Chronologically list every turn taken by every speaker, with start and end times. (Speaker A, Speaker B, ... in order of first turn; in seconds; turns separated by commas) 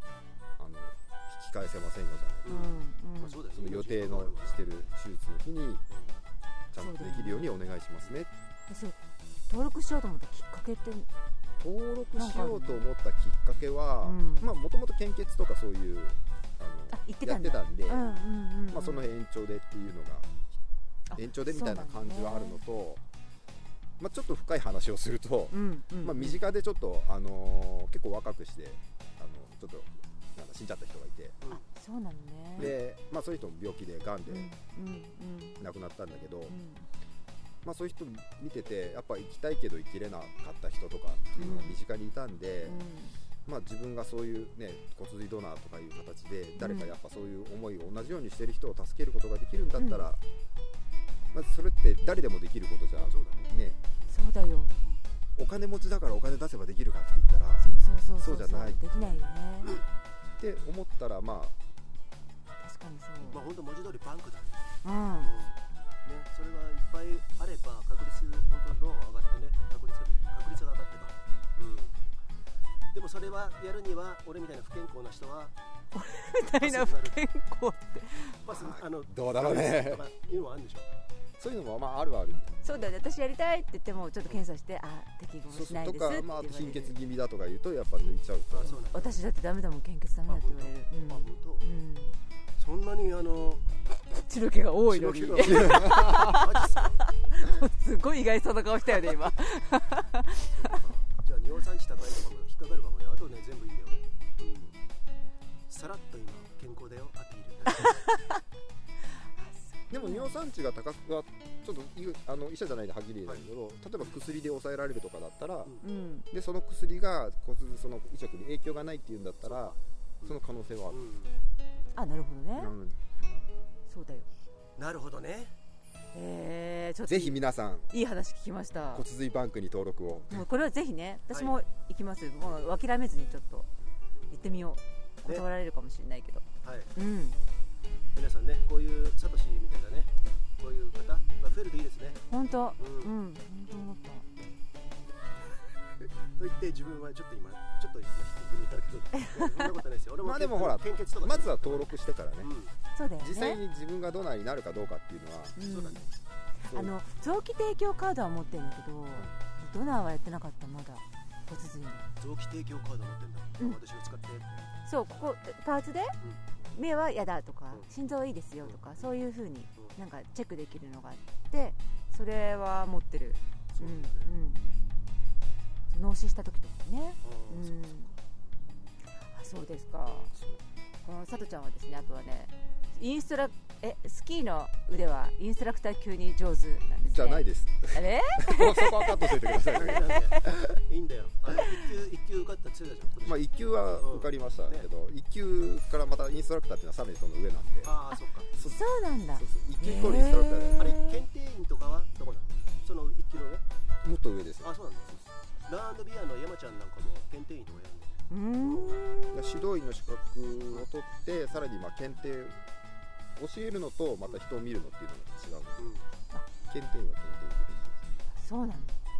Speaker A: 0.6-2.6, Speaker B: 2.4-4.6, Speaker C: 2.5-3.4, Speaker A: 3.5-5.8, Speaker B: 5.9-6.2, Speaker A: 6.7-8.3, Speaker C: 6.8-7.5, Speaker C: 8.7-9.0, Speaker C: 9.5-11.1, Speaker A: 11.6-18.1, Speaker C: 12.2-12.8, Speaker C: 14.0-14.5, Speaker C: 16.9-19.1, Speaker A: 18.7-20.3, Speaker C: 21.1-22.6, Speaker A: 21.1-23.0, Speaker A: 24.0-31.4, Speaker C: 25.5-26.4, Speaker C: 31.5-32.7, Speaker A: 32.6-34.5, Speaker C: 34.3-35.6, Speaker A: 35.6-36.5, Speaker C: 36.5-36.9, Speaker A: 37.6-42.8, Speaker C: 41.4-41.8, Speaker C: 42.6-43.2, Speaker A: 43.5-50.2, Speaker C: 46.6-46.9, Speaker C: 49.8-50.0, Speaker A: 51.3-53.8, Speaker B: 52.9-53.5, Speaker C: 54.1-54.7, Speaker A: 55.4-57.6, Speaker C: 57.6-59.8, Speaker A: 58.2-59.2, Speaker A: 60.4-61.5, Speaker C: 62.6-63.5, Speaker B: 63.3-71.9, Speaker C: 64.8-65.3, Speaker B: 72.9-75.5, Speaker C: 75.9-78.4, Speaker B: 76.6-77.2, Speaker B: 78.4-80.9, Speaker A: 78.5-80.0, Speaker A: 81.4-82.8, Speaker C: 82.6-86.9, Speaker A: 85.5-88.8, Speaker B: 88.5-89.2, Speaker C: 88.9-92.2, Speaker B: 90.3-91.6, Speaker B: 92.6-93.7, Speaker C: 94.2-100.8, Speaker B: 94.9-97.0, Speaker A: 95.4-96.4, Speaker B: 100.5-104.7, Speaker B: 105.7-108.0, Speaker C: 107.8-108.4, Speaker C: 109.4-110.4, Speaker A: 109.9-115.7, Speaker C: 115.8-116.2, Speaker A: 116.3-121.0, Speaker B: 119.5-120.4, Speaker B: 120.9-121.4, Speaker C: 121.9-122.7, Speaker A: 122.6-123.0, Speaker C: 123.9-124.3, Speaker B: 124.8-125.5, Speaker C: 126.1-127.4, Speaker A: 127.0-127.9, Speaker C: 127.9-129.1, Speaker A: 128.9-130.5, Speaker C: 130.3-133.7, Speaker C: 134.3-136.4, Speaker B: 136.6-136.9, Speaker C: 136.9-137.4, Speaker B: 138.1-142.2, Speaker C: 142.3-144.3, Speaker B: 142.8-143.1, Speaker B: 146.4-152.7, Speaker C: 149.2-149.7, Speaker A: 150.2-152.5, Speaker C: 152.9-153.6, Speaker A: 153.2-155.6, Speaker C: 155.6-156.0, Speaker B: 155.6-156.1, Speaker C: 156.6-162.1, Speaker B: 162.2-164.7, Speaker C: 164.9-166.2, Speaker C: 166.7-174.6, Speaker B: 168.6-169.2, Speaker B: 173.7-174.3, Speaker C: 175.9-178.1, Speaker B: 177.2-178.0, Speaker C: 179.3-180.3, Speaker A: 180.3-180.6, Speaker C: 181.0-189.3, Speaker A: 187.1-190.7, Speaker B: 189.6-194.9, Speaker C: 190.0-190.5, Speaker A: 193.2-197.9, Speaker B: 197.8-198.5, Speaker A: 198.6-198.8, Speaker C: 198.7-201.2, Speaker A: 199.3-200.9, Speaker B: 200.8-203.6, Speaker A: 204.0-205.2, Speaker B: 204.6-209.1, Speaker C: 208.3-209.6, Speaker A: 209.3-212.6, Speaker A: 213.4-215.9, Speaker B: 215.8-216.0, Speaker A: 216.7-218.0, Speaker C: 218.4-219.0